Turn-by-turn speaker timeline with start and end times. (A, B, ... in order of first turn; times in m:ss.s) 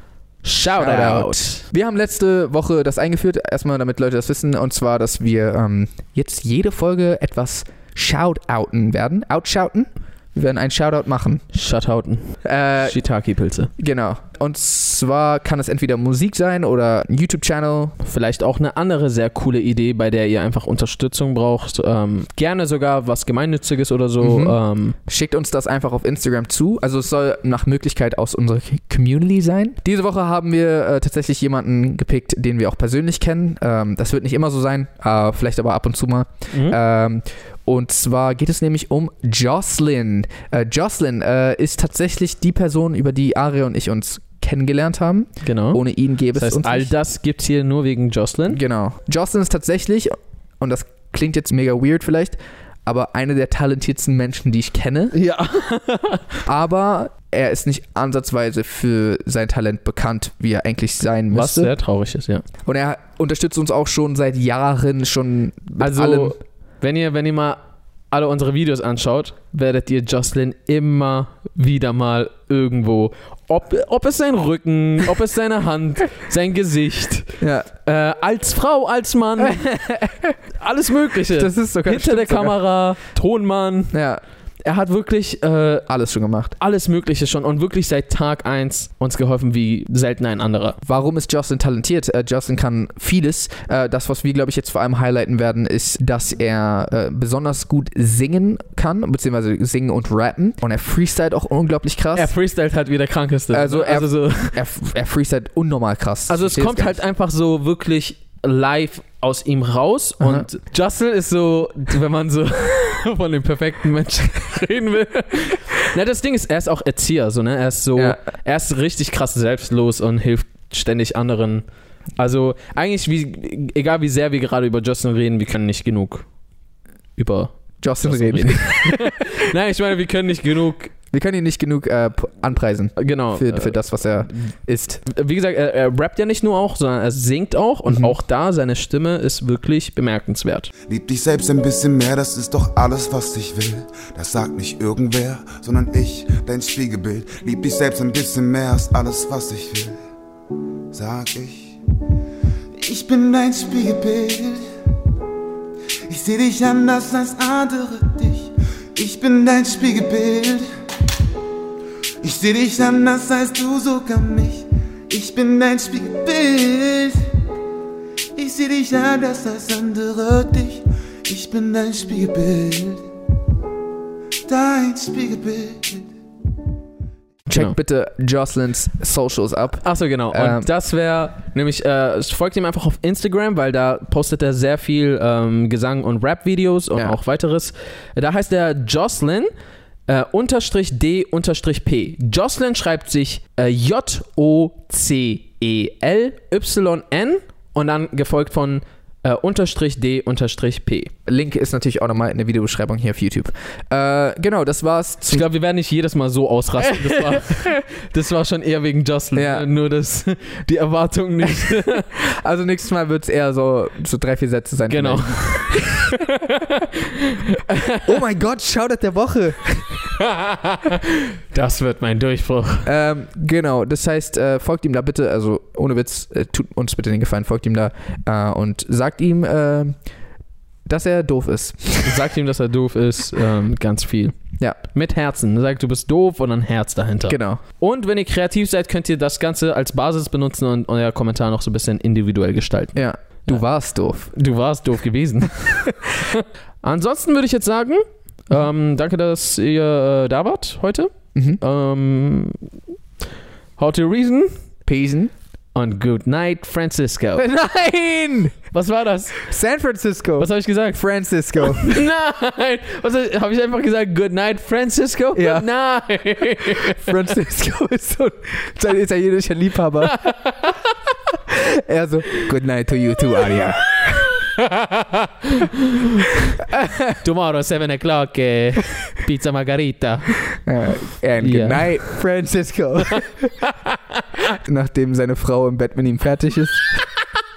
0:00.4-0:01.6 A
0:00.8-0:11.4 B
0:11.5-0:13.7 A
0:12.4-0:13.0 B
0:13.8-0:18.0 B
0:18.0-0:25.0 A
0:24.2-0:24.6 B
0:25.1-0:46.9 B
0:36.5-0:36.8 A
0:45.4-0:48.6 A
0:48.5-0:55.1 B
0:55.1-0:56.2 A
0:56.4-1:01.7 B
1:01.3-1:02.4 A
1:02.6-1:06.4 B
1:05.8-1:07.6 A
1:08.1-1:19.8 A
1:17.4-1:17.7 B
1:19.4-1:20.4 B
1:20.5-1:23.9 A
1:21.3-1:22.6 B
1:23.9-1:24.2 B
1:24.6-1:25.9 A
1:25.9-1:26.6 B
1:26.6-1:30.8 A
1:30.8-1:42.3 B
1:42.2-1:44.6 A
1:43.5-1:47.0 B
1:46.3-2:01.6 A
1:50.2-1:50.5 B
2:02.2-2:06.3 A
2:07.2-2:10.9 A
2:07.8-2:09.2 B
2:11.1-2:15.0 B
2:13.0-2:13.8 A
2:15.0-2:20.7 A
2:17.9-2:18.1 B
2:20.9-2:30.0 C
2:30.9-2:31.8 C
2:32.8-2:34.6 C
2:36.1-2:40.7 C
2:42.2-2:47.3 C
2:48.4-2:53.1 C
2:54.4-2:56.1 C
2:57.5-2:57.8 A
2:57.5-3:00.7 B
2:59.8-3:09.5 A
3:10.1-3:21.1 A
3:21.2-3:25.5 B
3:25.3-3:32.1 A
3:26.8-3:27.8 B
3:29.3-3:29.6 B
3:32.1-3:36.2 B
3:34.9-3:38.1 A
3:37.9-3:40.1 B
3:40.1-3:42.9 A
3:42.8-3:50.0 B
3:50.8-3:52.2 B
3:52.0-4:03.6 A
3:57.3-3:57.6 B
4:02.9-4:04.3 B
4:04.3-4:12.6 A
4:11.3-4:11.6 B
4:13.8-4:14.5 A
4:14.8-4:15.3 B
4:15.7-4:17.4 A
4:17.4-4:18.6 B
4:18.7-4:19.4 A
4:19.4-4:21.9 B
4:20.4-4:21.0 A
4:21.6-4:27.1 A
4:25.3-4:25.6 B
4:26.9-4:30.2 B
4:30.0-4:30.8 A
4:31.5-4:34.2 B
4:34.1-4:36.5 A
4:36.6-4:37.2 B
4:37.2-4:40.5 A
4:40.6-4:43.5 B
4:41.4-4:42.2 A
4:43.0-4:44.5 A
4:44.6-4:46.9 B